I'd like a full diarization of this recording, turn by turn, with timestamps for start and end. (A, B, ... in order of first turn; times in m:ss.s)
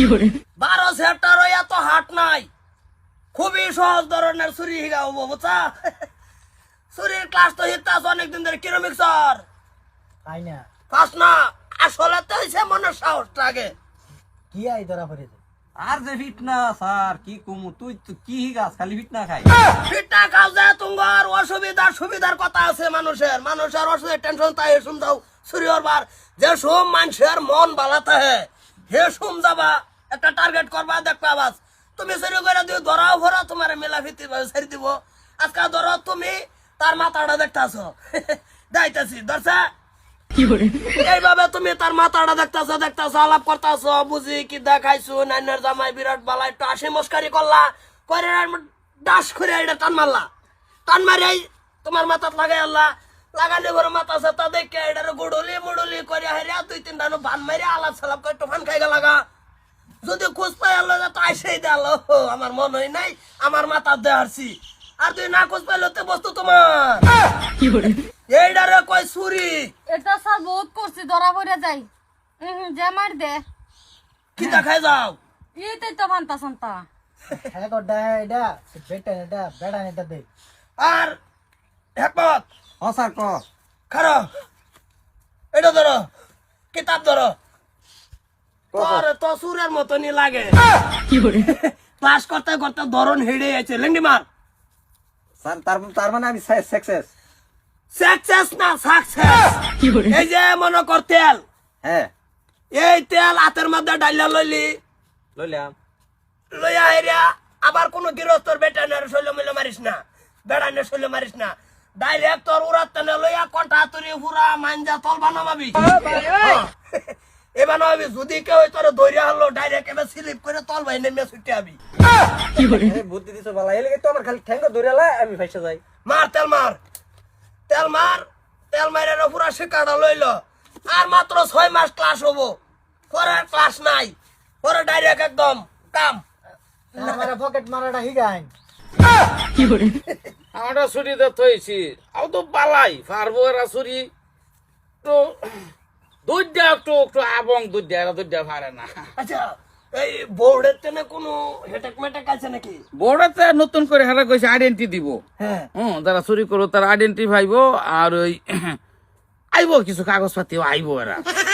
0:00.6-0:02.5 A
0:03.3-0:05.9 A
0:06.9-0:09.4 A
0:10.3-0:10.7 B
0:10.9-0:13.7 A
0:14.5-0:15.4 B
0:15.8-0:19.5 C
0:19.8-0:39.7 A
0:40.9-0:50.2 A
0:50.9-0:59.2 A
1:00.0-1:07.0 A
1:08.3-1:09.7 A
1:09.9-1:11.9 D
1:12.4-1:13.4 D
1:14.4-1:15.2 A
1:15.6-1:16.8 D
1:17.3-1:20.2 B
1:20.8-1:21.2 A
1:22.0-1:22.4 A
1:22.8-1:23.4 C
1:23.9-1:24.3 A
1:25.5-1:26.1 A
1:26.7-1:27.3 A
1:28.7-1:29.0 C
1:28.7-1:30.6 A
1:31.2-1:34.2 A
1:35.4-1:37.1 C
1:37.9-1:41.4 A
1:41.8-1:42.1 C
1:42.7-1:44.7 A
1:45.4-1:45.7 C
1:46.5-1:56.7 A
1:57.6-2:01.8 A
2:02.6-2:05.8 C
2:06.0-2:06.8 A
2:07.7-2:12.6 A
2:13.1-2:16.2 A
2:16.9-2:18.5 B
2:17.0-2:17.3 A
2:20.5-2:24.1 E
2:25.0-2:25.7 E
2:26.2-2:29.0 E
2:29.2-2:32.8 A
2:33.0-2:35.2 E
2:35.4-2:35.7 A
2:35.7-2:38.8 E
2:39.5-2:41.3 E